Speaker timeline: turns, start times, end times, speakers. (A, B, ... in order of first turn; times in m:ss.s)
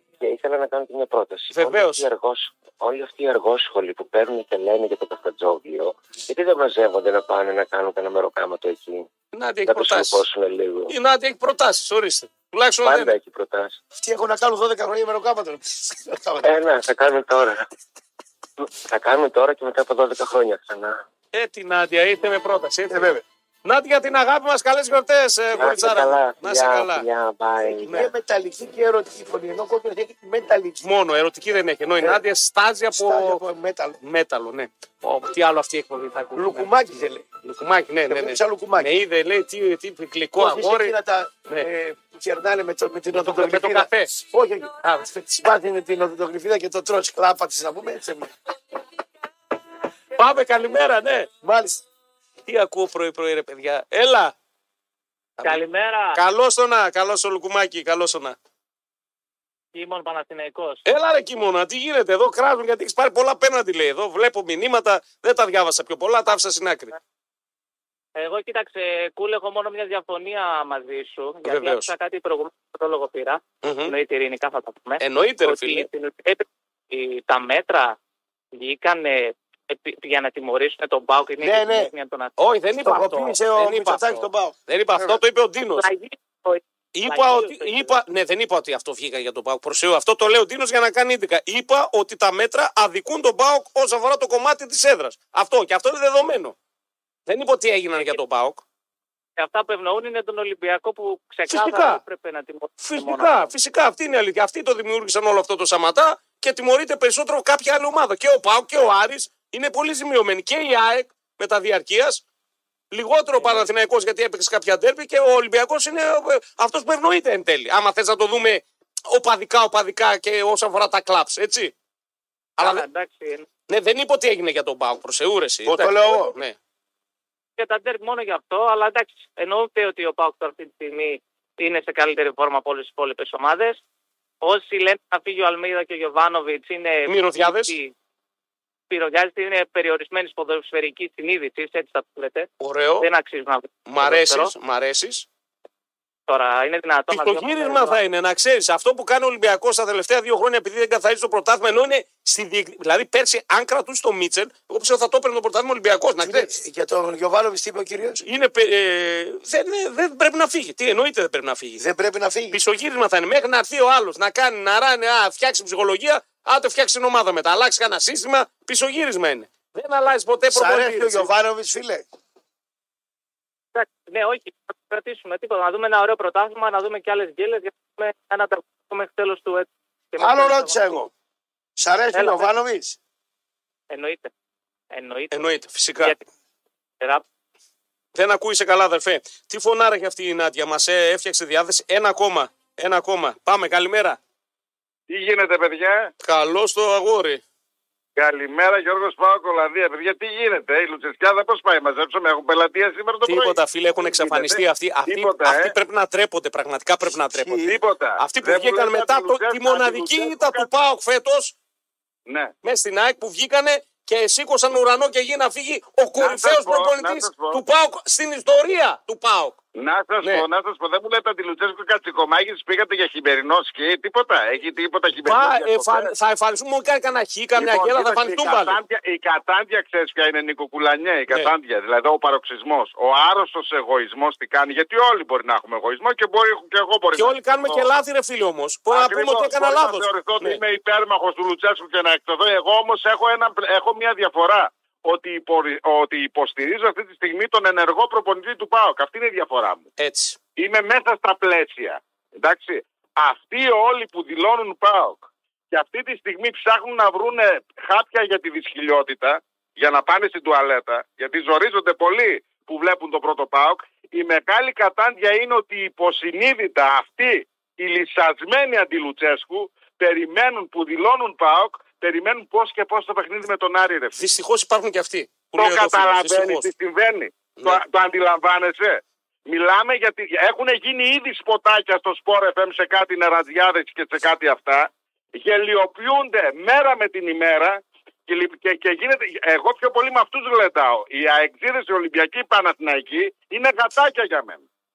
0:00.2-0:09.1 A
0:01.5-0:02.0 B
0:09.3-0:10.2 B
0:09.7-0:10.9 A
0:10.9-0:13.2 B
0:12.8-0:13.8 A
0:14.0-0:16.5 C
0:16.4-0:17.7 A
0:18.6-0:21.0 A
0:21.3-0:23.1 B
0:22.9-0:23.2 C
0:23.6-0:27.1 B
0:25.6-0:28.0 A
0:25.6-0:25.9 C
0:27.6-0:30.8 C
0:27.9-0:28.1 B
0:30.8-0:33.4 B
0:32.9-0:34.0 C
0:34.0-0:36.7 B
0:36.4-0:37.3 C
0:37.4-0:41.0 B
0:38.1-0:38.9 C
0:40.4-0:48.3 C
0:43.1-0:44.2 B
0:44.8-0:45.2 B
0:50.2-0:51.3 B
0:51.4-0:51.8 C
0:52.5-0:54.3 B
0:55.4-0:56.2 D
0:56.1-0:58.4 B
0:59.7-1:00.8 D
1:00.9-1:07.0 B
1:08.2-1:18.0 D
1:11.4-1:11.9 B
1:13.6-1:13.9 B
1:15.0-1:15.9 B
1:18.5-1:22.3 D
1:21.4-1:21.9 C
1:22.4-1:25.9 B
1:22.9-1:25.2 C
1:25.8-1:28.0 D
1:27.0-1:36.6 B
1:37.3-1:38.6 B
1:39.4-1:43.5 D
1:41.5-1:42.0 B
1:42.8-1:52.2 B
1:52.9-2:01.7 B
1:53.4-1:53.7 D
2:02.6-2:02.8 B
2:02.6-2:03.5 D
2:03.7-2:06.6 B
2:05.6-2:06.3 C
2:07.6-2:13.8 D
2:14.4-2:17.9 D
2:17.1-2:17.7 B
2:18.9-2:22.5 D
2:22.6-2:23.1 B
2:23.0-2:24.5 D
2:23.9-2:25.3 B
2:26.3-2:28.0 D
2:27.1-2:36.5 B
2:36.2-2:38.2 C
2:38.2-2:41.8 B
2:41.8-2:42.6 C
2:42.5-2:51.3 B
2:50.5-2:52.0 C
2:53.7-3:01.0 D
3:00.2-3:01.1 C
3:01.8-3:03.0 C
3:02.1-3:02.5 D
3:03.9-3:04.3 D
3:04.9-3:05.4 D
3:05.3-3:06.1 B
3:06.0-3:06.2 D
3:08.1-3:14.2 B
3:15.1-3:16.1 E
3:16.2-3:17.4 B
3:18.2-3:25.7 E
3:23.2-3:31.5 B
3:27.3-3:27.8 C
3:27.6-3:30.7 E
3:32.6-3:39.6 B
3:36.2-3:37.6 E
3:39.8-3:46.1 E
3:45.2-3:48.8 B
3:47.6-3:57.8 E
3:57.2-4:00.6 B
3:58.9-4:09.9 E
4:10.0-4:10.4 B
4:10.6-4:34.3 E
4:34.2-4:36.7 B
4:35.6-4:54.6 E